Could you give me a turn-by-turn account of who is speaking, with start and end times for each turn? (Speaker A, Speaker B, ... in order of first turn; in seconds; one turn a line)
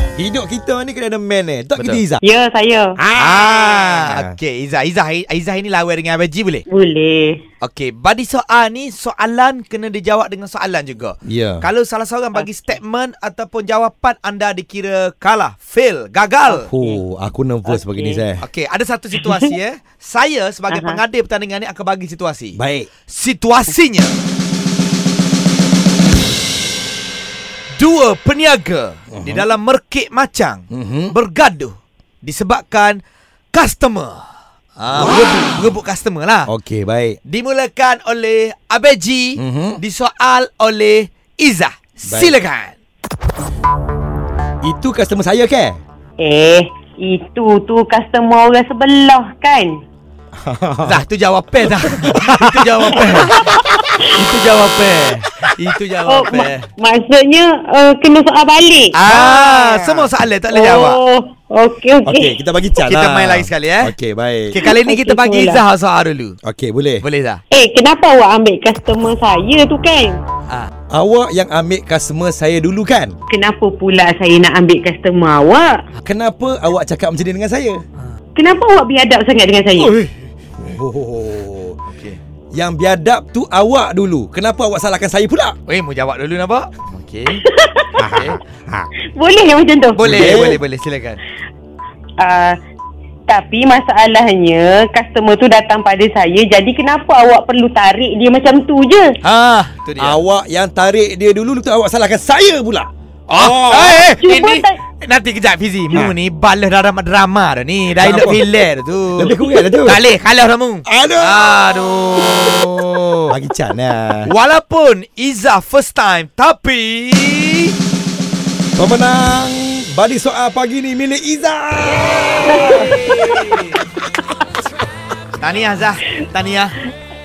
Speaker A: 0.1-2.2
Speaker B: 2.2-3.0
Speaker A: 3.0-4.3
Speaker C: 3.2-6.6
Speaker B: 6.7-7.4
Speaker C: 7.6-16.7
Speaker A: 11.2-11.7
Speaker A: 16.5-18.4
Speaker B: 17.6-18.2
Speaker C: 18.4-24.1
Speaker B: 19.2-19.5
Speaker B: 20.7-21.0
Speaker A: 22.6-22.9
Speaker C: 27.8-33.0
Speaker A: 29.1-29.4
Speaker A: 30.7-31.1
Speaker C: 33.5-34.3
Speaker C: 34.8-36.5
Speaker A: 35.0-35.6
Speaker A: 36.5-37.2
Speaker C: 37.2-42.8
Speaker A: 39.4-39.8
Speaker A: 42.1-42.3
Speaker A: 44.6-45.8
Speaker B: 46.2-49.8
Speaker A: 50.4-51.0
Speaker C: 50.8-53.4
Speaker A: 51.8-53.2
Speaker B: 53.3-54.0
Speaker C: 54.1-56.7
Speaker B: 56.0-59.0
Speaker C: 58.9-61.0
Speaker A: 59.0-60.1
Speaker B: 60.5-62.3
Speaker A: 62.0-64.6
Speaker C: 62.9-63.9
Speaker C: 64.5-66.4
Speaker B: 64.6-65.6
Speaker A: 66.4-67.0
Speaker C: 67.0-67.4
Speaker B: 67.5-70.2
Speaker A: 70.9-73.2
Speaker B: 73.3-75.8
Speaker A: 76.0-77.8
Speaker B: 78.3-80.0
Speaker C: 79.8-80.1
Speaker A: 80.6-81.8
Speaker C: 81.9-82.2
Speaker A: 82.5-85.6
Speaker C: 85.7-87.4
Speaker B: 87.5-88.0
Speaker A: 88.0-88.9
Speaker C: 88.1-88.4
Speaker B: 89.1-90.5
Speaker C: 90.0-91.2
Speaker A: 90.0-90.6
Speaker B: 92.2-92.6
Speaker B: 93.3-99.1
Speaker C: 99.2-100.2
Speaker A: 100.0-104.0
Speaker C: 103.3-113.3
Speaker B: 104.2-104.8
Speaker A: 108.0-108.5
Speaker A: 109.2-110.0
Speaker A: 110.8-111.5
Speaker A: 113.3-114.3
Speaker C: 114.2-117.7
Speaker A: 118.8-122.9
Speaker B: 122.4-123.5
Speaker C: 122.4-123.8
Speaker C: 125.4-126.7